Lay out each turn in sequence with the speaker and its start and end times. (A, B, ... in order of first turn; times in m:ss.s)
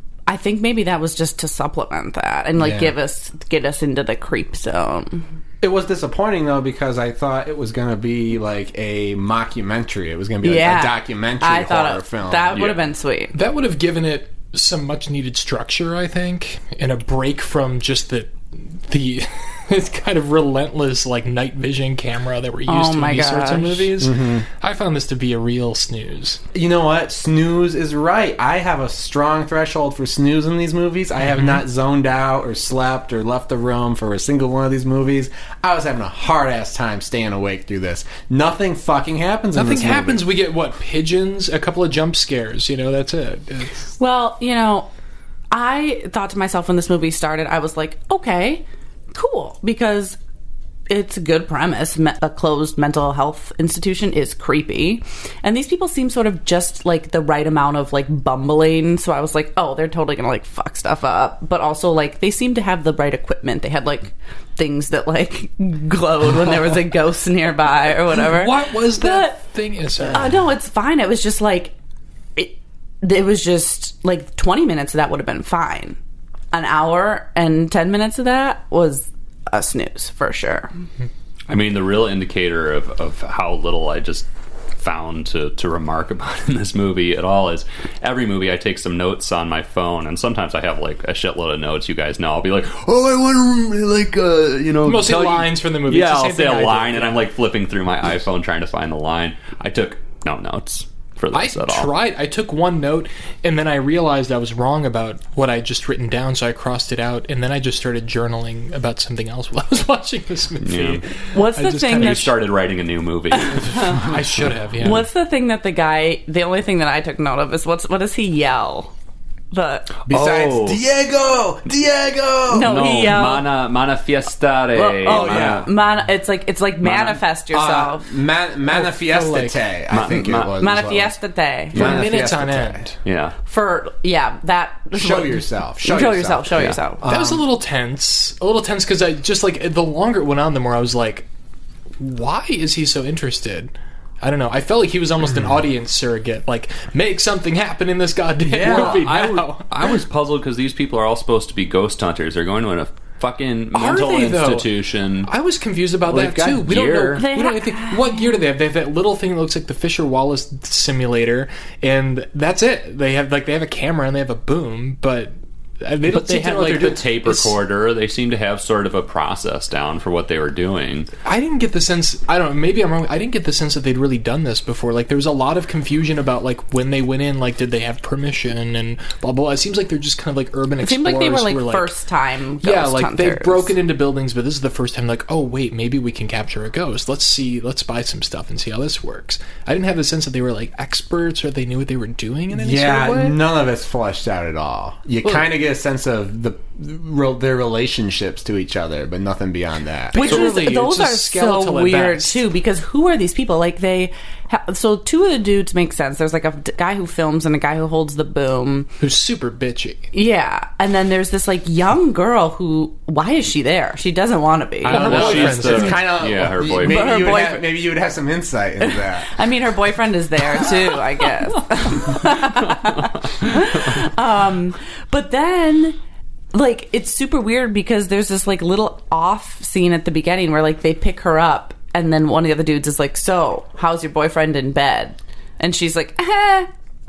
0:00.3-0:05.2 A
0:02.6-0:02.9 B
0:05.6-0:12.7 B
0:10.4-0:13.3 A
0:13.3-0:26.4 C
0:22.7-0:23.9 A
0:24.0-0:24.4 B
0:26.5-0:40.2 B
0:31.3-0:31.5 C
0:39.5-0:43.9 C
0:44.0-0:44.9 A
0:45.5-0:50.2 A
0:50.9-1:09.4 A
1:08.1-1:10.4 C
1:10.1-1:11.7 A
1:12.4-1:16.0 A
1:16.5-1:20.7 A
1:21.5-1:41.9 D
1:34.8-1:37.2 C
1:41.3-1:52.3 C
1:50.6-1:51.0 D
1:51.3-1:52.4 A
1:51.9-1:53.9 D
1:53.3-1:54.1 A
1:53.7-1:55.0 C
1:54.8-1:58.9 A
1:59.5-2:00.0 A
2:00.0-2:00.8 D
2:00.1-2:02.8 B
2:02.5-2:03.5 A
2:02.5-2:05.7 D
2:04.7-2:08.1 A
2:05.0-2:05.7 B
2:06.8-2:07.2 D
2:07.5-2:11.1 B
2:08.7-2:09.6 C
2:09.9-2:10.6 D
2:10.6-2:11.9 A
2:11.7-2:12.8 B
2:11.8-2:12.0 D
2:11.8-2:13.0 C
2:13.0-2:13.4 D
2:13.4-2:17.0 A
2:14.9-2:17.4 B
2:17.0-2:21.3 C
2:22.0-2:29.9 C
2:28.4-2:29.0 B
2:28.5-2:35.3 D
2:33.7-2:34.7 C
2:35.2-2:47.6 C
2:36.1-2:37.2 D
2:37.2-2:38.2 A
2:46.1-2:51.1 D
2:51.2-3:01.9 C
3:00.8-3:03.7 A
3:02.6-3:13.4 C
3:12.5-3:20.5 B
3:20.1-3:22.4 C
3:20.1-3:28.9 A
3:29.0-3:30.1 C
3:30.1-3:35.5 A
3:34.8-3:36.1 C
3:34.8-3:37.3 D
3:34.9-3:39.4 B
3:36.7-3:37.8 A
3:38.8-3:46.0 A
3:42.1-3:44.0 D
3:46.5-3:56.7 A